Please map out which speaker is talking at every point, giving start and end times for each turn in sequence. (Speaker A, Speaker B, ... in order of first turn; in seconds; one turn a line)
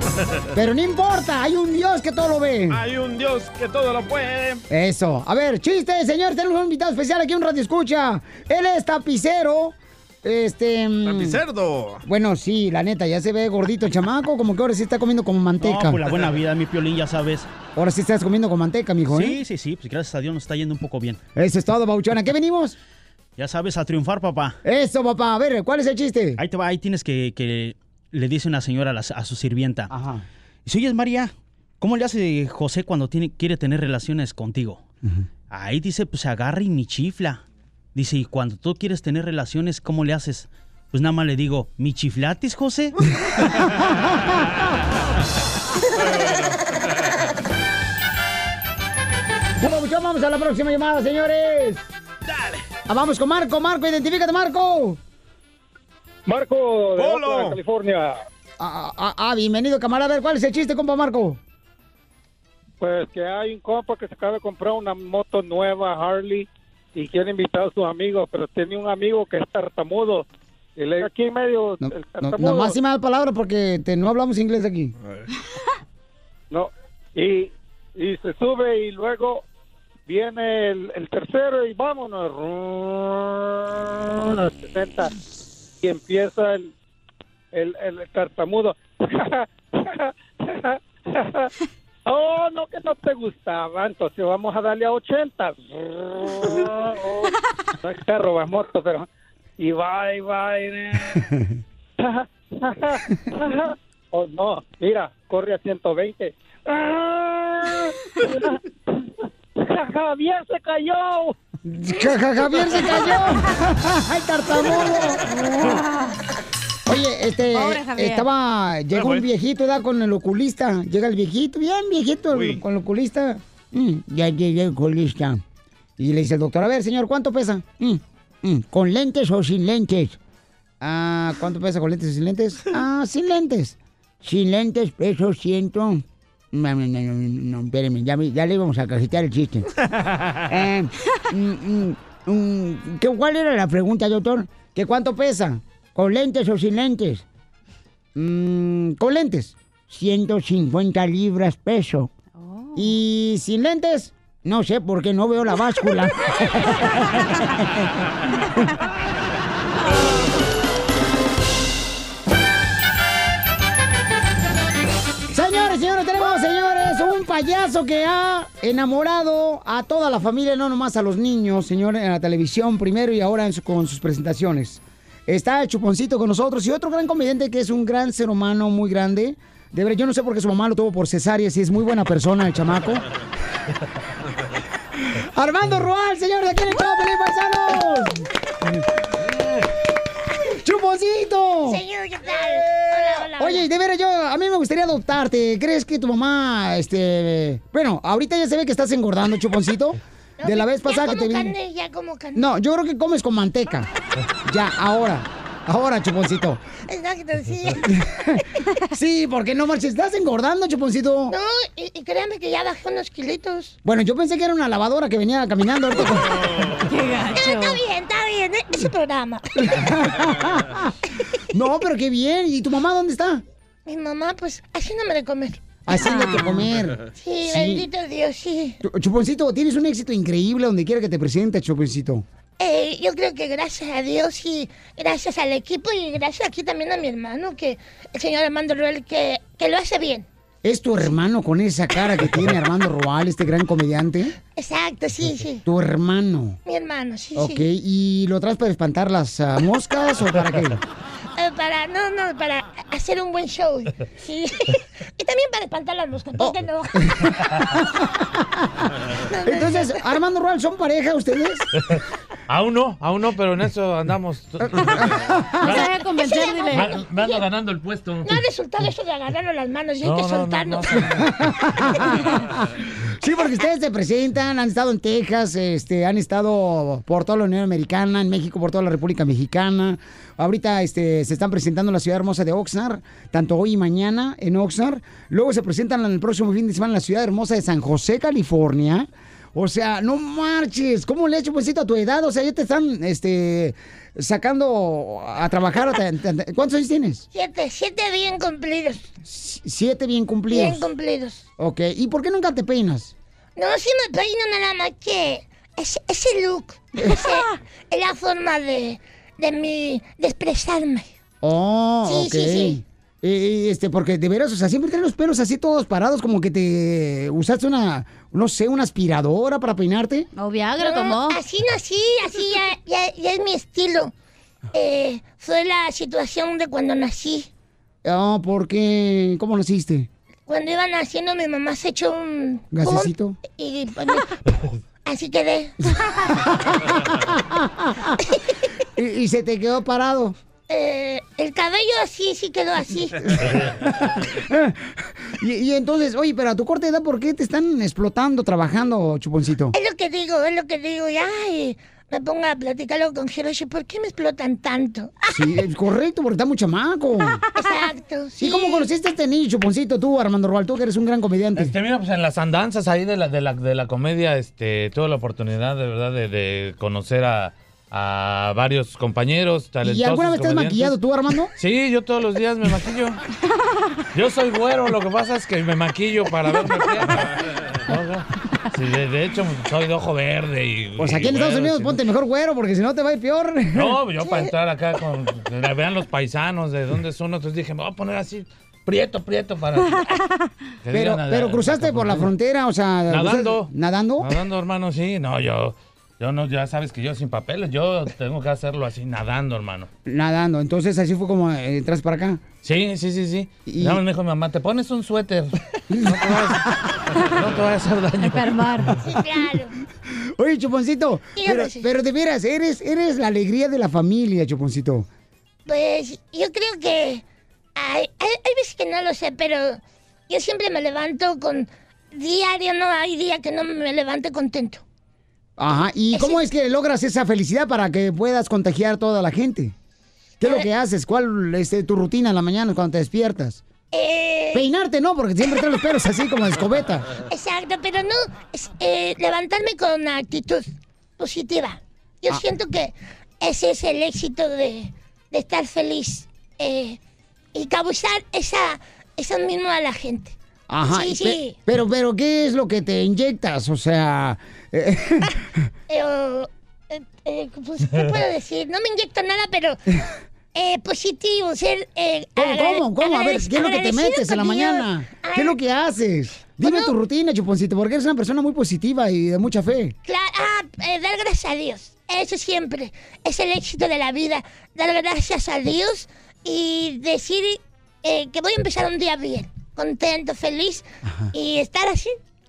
Speaker A: 0.5-2.8
Speaker B: 2.7-4.6
Speaker A: 4.7-11.4
Speaker B: 11.0-12.0
Speaker A: 12.0-16.0
Speaker C: 15.6-17.5
Speaker A: 17.8-19.4
Speaker C: 19.1-21.2
Speaker A: 21.4-22.8
Speaker C: 23.4-24.6
Speaker A: 24.6-26.4
Speaker C: 26.4-29.9
Speaker A: 29.9-30.2
Speaker C: 30.6-34.8
Speaker C: 35.5-37.4
Speaker C: 37.9-43.0
Speaker B: 46.1-46.5
Speaker A: 49.6-51.8
Speaker B: 52.3-52.6
Speaker A: 52.9-55.0
Speaker D: 56.3-58.2
Speaker B: 57.0-57.6
Speaker A: 58.6-61.4
Speaker D: 62.8-70.2
Speaker D: 70.8-72.8
Speaker A: 71.8-74.9
Speaker B: 75.0-75.3
Speaker D: 76.5-79.4
Speaker D: 80.1-85.1
Speaker D: 85.8-86.7
Speaker D: 87.5-91.5
Speaker D: 92.0-99.1
Speaker D: 99.6-101.2
Speaker D: 102.0-108.6
Speaker D: 109.6-111.3
Speaker A: 111.6-115.8
Speaker A: 116.9-125.4
Speaker E: 117.5-118.3
Speaker B: 118.9-119.2
Speaker B: 122.3-122.6
Speaker A: 126.0-130.2
Speaker A: 130.8-139.7
Speaker A: 140.5-147.2
Speaker A: 148.2-152.1
Speaker E: 152.4-152.9
Speaker A: 152.7-157.9
Speaker A: 165.3-183.1
Speaker A: 185.2-188.8
Speaker A: 190.5-191.8
Speaker F: 191.6-193.7
Speaker A: 192.4-201.5
Speaker F: 200.4-202.4
Speaker A: 202.3-203.9
Speaker A: 204.4-206.6
Speaker F: 206.9-207.9
Speaker A: 207.8-211.3
Speaker F: 211.3-213.8
Speaker A: 213.8-216.5
Speaker E: 216.8-217.8
Speaker F: 217.3-219.5
Speaker A: 219.6-220.9
Speaker A: 221.5-223.4
Speaker F: 223.8-226.3
Speaker A: 225.8-227.9
Speaker E: 225.9-226.6
Speaker F: 227.1-228.8
Speaker A: 228.8-232.2
Speaker F: 232.6-240.2
Speaker A: 240.6-244.3
Speaker F: 244.6-245.6
Speaker A: 245.6-246.6
Speaker F: 246.7-247.7
Speaker A: 247.4-250.8
Speaker F: 251.4-257.2
Speaker A: 256.4-258.6
Speaker F: 259.3-260.0
Speaker A: 259.4-261.7
Speaker G: 261.9-265.8
Speaker A: 264.6-265.8
Speaker E: 265.6-266.9
Speaker F: 265.7-267.4
Speaker G: 266.7-268.4
Speaker F: 268.2-271.1
Speaker G: 270.0-271.4
Speaker A: 271.1-297.2
Speaker F: 297.3-299.1
Speaker A: 299.2-300.9
Speaker F: 300.5-301.4
Speaker A: 301.6-303.1
Speaker F: 303.6-311.1
Speaker A: 311.4-320.3
Speaker F: 312.1-312.8
Speaker E: 320.4-321.4
Speaker F: 320.8-324.1
Speaker F: 324.7-327.5
Speaker A: 328.0-330.1
Speaker F: 330.5-334.4
Speaker A: 332.7-333.4
Speaker F: 335.1-335.8
Speaker A: 336.3-338.1
Speaker A: 339.0-340.3
Speaker F: 340.7-343.2
Speaker A: 343.2-349.7
Speaker F: 349.7-355.3
Speaker A: 355.3-357.4
Speaker F: 357.5-358.9
Speaker A: 358.4-361.7
Speaker G: 361.6-370.9
Speaker A: 369.8-371.5
Speaker G: 371.6-373.2
Speaker G: 374.1-382.0
Speaker A: 381.0-384.0
Speaker G: 383.7-390.0
Speaker E: 389.9-390.2
Speaker G: 390.8-392.3
Speaker A: 390.9-394.4
Speaker G: 393.1-393.7
Speaker G: 394.2-399.9
Speaker A: 400.1-402.4
Speaker G: 402.6-406.6
Speaker A: 403.6-404.0
Speaker A: 405.9-406.8
Speaker G: 407.2-408.9
Speaker E: 408.2-408.9
Speaker F: 409.0-409.7
Speaker A: 410.4-415.1
Speaker F: 411.4-411.9
Speaker F: 415.6-417.2
Speaker F: 417.8-424.8
Speaker A: 425.6-429.7
Speaker F: 426.1-426.4
Speaker A: 430.4-433.6
Speaker F: 433.9-434.6
Speaker A: 434.5-437.1
Speaker F: 437.2-447.0
Speaker F: 447.5-450.3
Speaker A: 450.7-455.6
Speaker F: 450.9-451.6
Speaker F: 455.9-459.8
Speaker F: 460.5-465.6
Speaker A: 462.4-469.9
Speaker F: 466.6-466.9
Speaker F: 470.1-482.2